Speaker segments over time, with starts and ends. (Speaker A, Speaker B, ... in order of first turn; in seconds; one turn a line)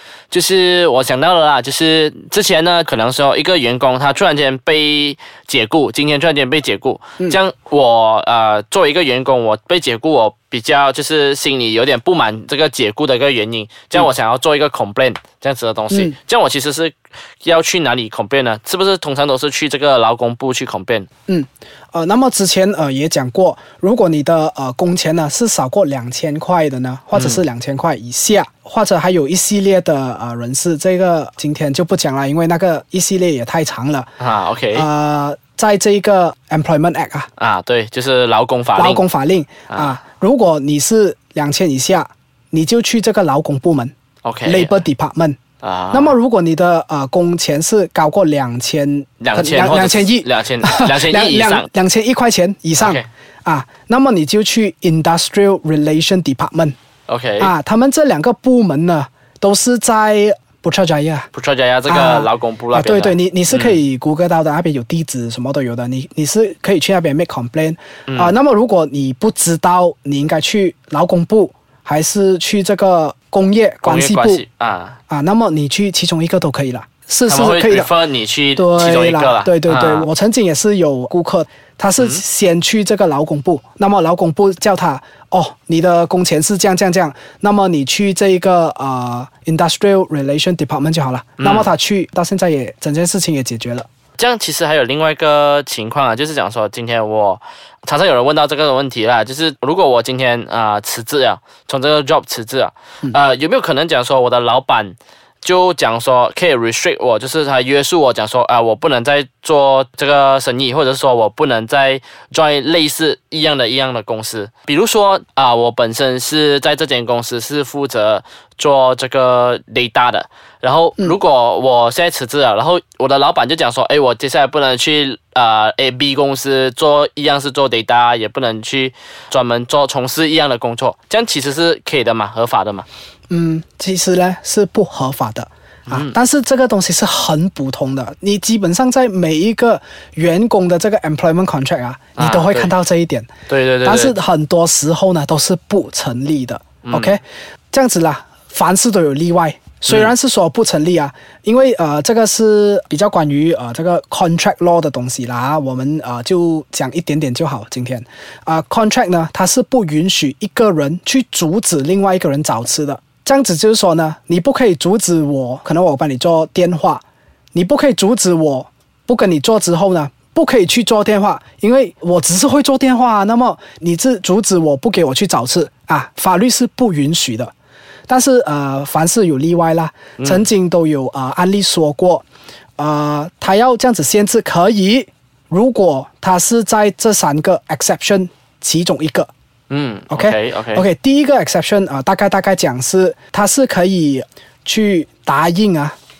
Speaker A: 0.3-21.1
Speaker B: 15.9-16.1
Speaker B: 21.3-34.1
Speaker A: 27.1-27.4
Speaker A: 34.2-34.9
Speaker B: 34.7-37.3
Speaker A: 37.4-39.0
Speaker B: 38.8-43.9
Speaker A: 39.7-40.0
Speaker A: 44.2-44.8
Speaker B: 44.4-45.4
Speaker A: 45.6-46.1
Speaker B: 45.9-56.8
Speaker A: 49.2-51.7
Speaker A: 52.8-53.0
Speaker A: 57.1-57.5
Speaker B: 57.4-61.3
Speaker A: 61.3-63.8
Speaker B: 61.9-74.4
Speaker A: 68.1-68.3
Speaker A: 73.8-75.0
Speaker B: 75.1-77.9
Speaker A: 77.3-80.1
Speaker B: 78.5-93.9
Speaker A: 91.4-91.7
Speaker A: 94.2-132.8
Speaker B: 133.3-143.3
Speaker A: 135.9-136.1
Speaker A: 142.2-142.8
Speaker A: 143.5-144.1
Speaker B: 143.8-167.0
Speaker A: 146.8-147.2
Speaker A: 149.9-150.1
Speaker B: 167.5-177.5
Speaker B: 178.1-182.2
Speaker A: 180.2-180.4
Speaker B: 182.8-189.3
Speaker A: 189.7-190.8
Speaker B: 190.1-195.9